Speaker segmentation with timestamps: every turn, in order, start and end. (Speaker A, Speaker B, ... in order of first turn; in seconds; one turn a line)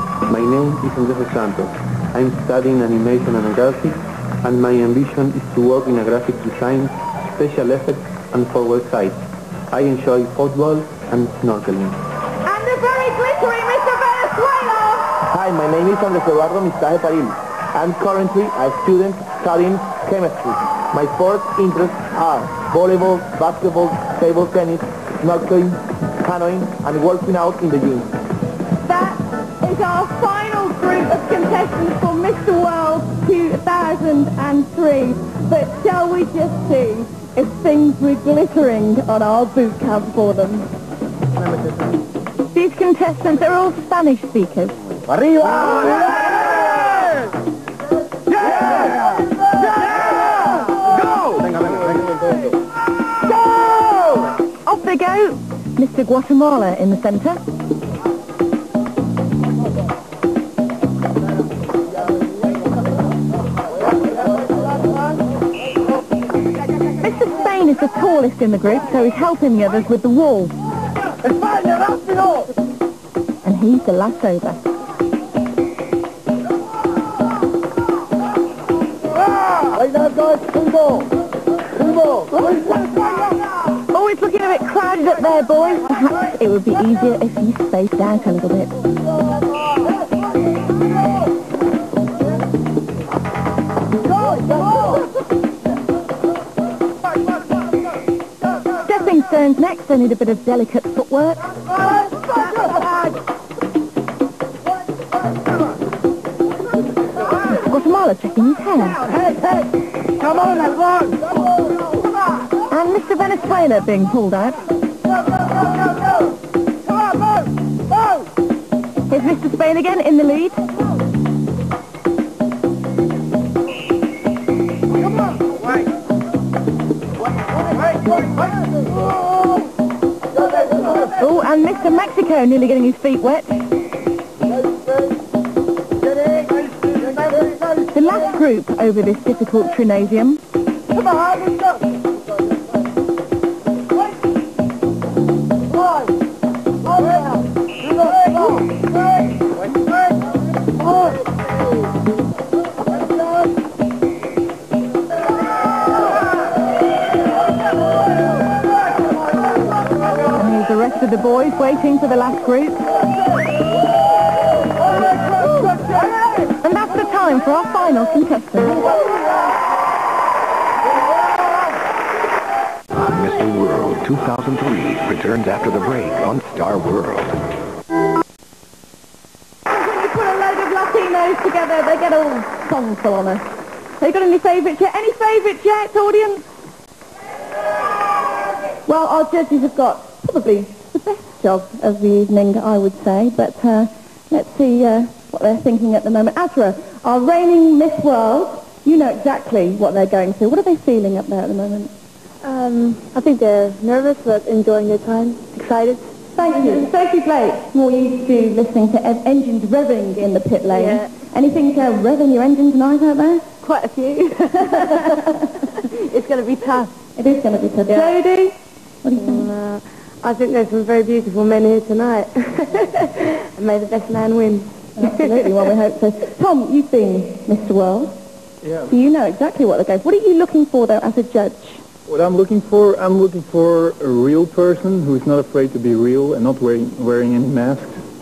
Speaker A: 0.3-12.0
Speaker B: 12.4-15.1
Speaker C: 15.3-28.1
Speaker B: 28.8-40.7
Speaker B: 42.5-44.8
Speaker B: 54.6-57.4
Speaker B: 67.0-70.5
Speaker B: 73.4-74.6
Speaker B: 83.9-88.7
Speaker B: 98.8-101.4
Speaker B: 107.5-109.1
Speaker B: 112.7-114.6
Speaker B: 119.1-120.6
Speaker B: 131.1-133.6
Speaker B: 137.9-140.4
Speaker B: 160.3-162.8
Speaker B: 166.6-169.0
Speaker D: 173.0-177.4
Speaker B: 179.7-183.5
Speaker B: 184.0-186.4
Speaker B: 188.8-201.9
Speaker E: 202.4-206.1
Speaker B: 206.3-213.4
Speaker E: 210.7-211.1
Speaker E: 213.6-216.9
Speaker B: 217.2-219.5
Speaker E: 217.9-218.2
Speaker E: 219.2-225.7
Speaker B: 225.0-228.2
Speaker F: 228.6-228.9
Speaker B: 228.8-231.8
Speaker F: 232.1-238.0